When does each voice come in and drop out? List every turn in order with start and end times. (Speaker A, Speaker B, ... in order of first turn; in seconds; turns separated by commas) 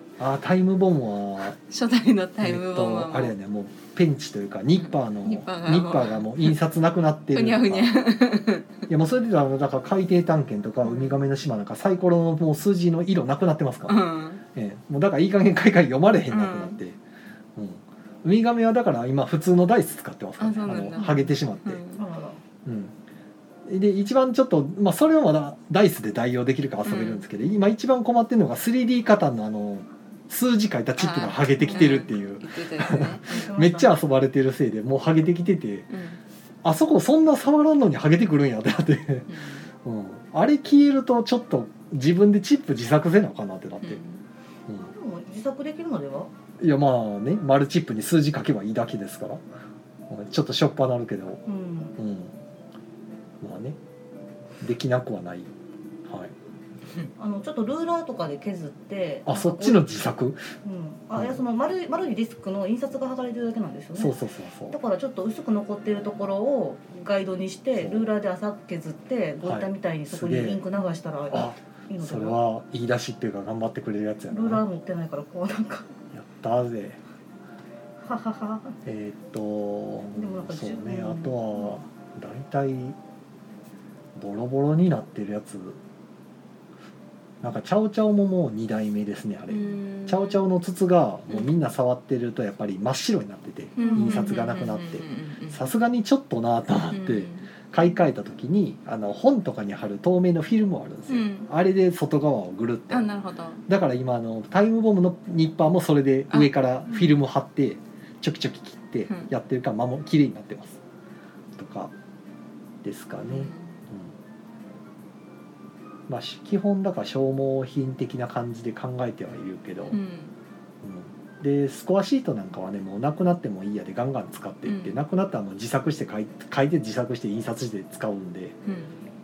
Speaker A: 0.2-1.6, Speaker B: 1.7-3.3, Speaker A: 2.4-8.0, Speaker B: 5.2-6.5, Speaker B: 7.3-8.8, Speaker A: 8.9-17.0, Speaker B: 10.8-11.2, Speaker B: 13.9-14.4, Speaker B: 16.3-16.8, Speaker A: 17.6-21.8, Speaker B: 20.4-22.0, Speaker C: 21.0-21.3, Speaker C: 21.9-22.4, Speaker A: 22.6-22.9, Speaker A: 23.7-35.9, Speaker B: 26.9-27.3, Speaker B: 31.0-33.5, Speaker C: 31.6-31.9, Speaker C: 33.3-33.9, Speaker B: 35.9-36.2, Speaker A: 36.6-44.0, Speaker B: 39.3-39.7, Speaker B: 43.8-44.2, Speaker C: 44.7-46.3, Speaker A: 46.6-49.4, Speaker A: 50.1-51.4, Speaker C: 51.5-52.0, Speaker A: 52.0-52.4, Speaker A: 53.4-53.8, Speaker A: 54.6-55.5, Speaker A: 56.1-56.4, Speaker C: 57.2-59.8, Speaker A: 59.3-60.5, Speaker C: 60.6-64.2, Speaker A: 61.2-61.4, Speaker A: 64.0-64.8, Speaker C: 64.7-72.4, Speaker A: 67.8-68.1, Speaker A: 69.4-70.6, Speaker A: 71.3-74.6, Speaker C: 74.3-75.9, Speaker A: 76.1-77.0, Speaker C: 78.0-78.8, Speaker A: 78.8-83.0, Speaker C: 80.2-81.8, Speaker A: 84.2-85.8, Speaker A: 87.4-103.1, Speaker B: 89.5-90.4, Speaker C: 93.8-94.3, Speaker B: 93.8-95.6, Speaker B: 96.9-97.5, Speaker B: 101.1-101.5, Speaker B: 102.9-103.6, Speaker A: 103.7-110.8, Speaker A: 111.6-111.9, Speaker A: 112.8-114.1, Speaker B: 113.3-113.7, Speaker A: 116.1-120.0, Speaker B: 119.9-120.3, Speaker A: 120.8-128.6, Speaker B: 124.7-125.0, Speaker B: 128.7-129.0